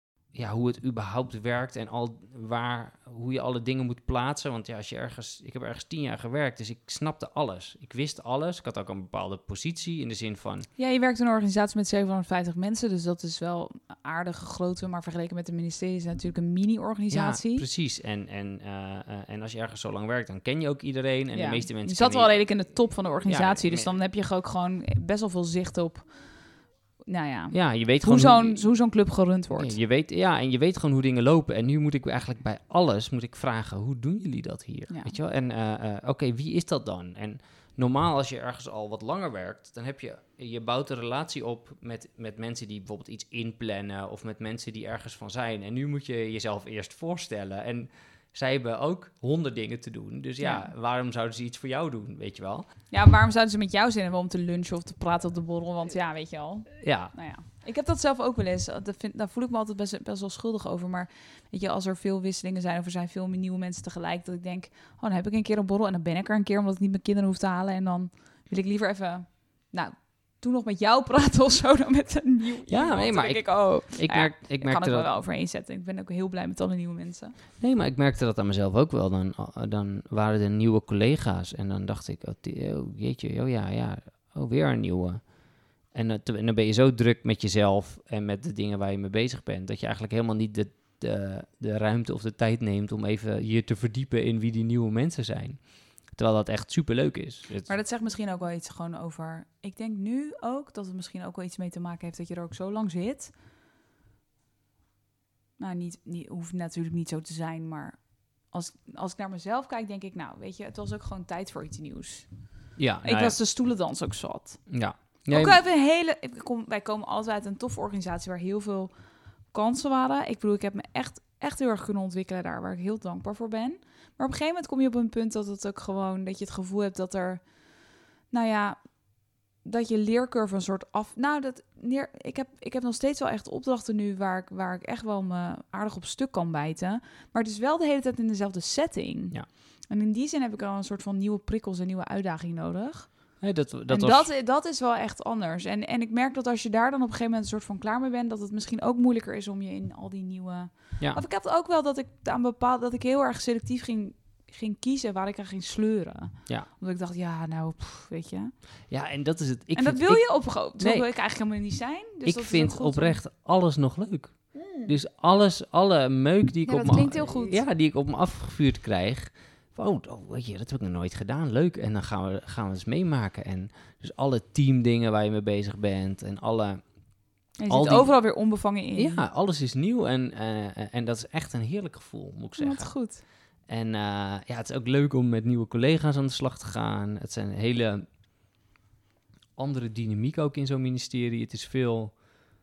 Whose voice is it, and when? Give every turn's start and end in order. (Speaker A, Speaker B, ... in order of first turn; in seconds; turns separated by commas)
Speaker A: 0.3-10.7, Speaker B: 10.8-17.7, Speaker A: 17.1-23.9, Speaker B: 21.3-29.8, Speaker A: 27.5-28.7, Speaker A: 29.6-52.7, Speaker B: 34.9-35.1, Speaker B: 50.4-50.7, Speaker B: 52.9-77.3, Speaker A: 56.8-57.1, Speaker A: 72.7-75.1, Speaker A: 77.6-97.8, Speaker B: 97.7-103.3, Speaker B: 105.6-112.3, Speaker A: 112.8-113.4, Speaker B: 113.0-118.9, Speaker A: 114.7-115.6, Speaker B: 119.5-127.5, Speaker B: 128.3-128.9, Speaker B: 129.6-158.6, Speaker A: 143.4-144.3, Speaker A: 158.9-161.1, Speaker B: 159.8-163.2, Speaker A: 162.2-188.1, Speaker B: 164.5-164.9, Speaker B: 166.7-167.6, Speaker B: 177.6-179.2, Speaker B: 182.6-183.2, Speaker A: 189.6-192.3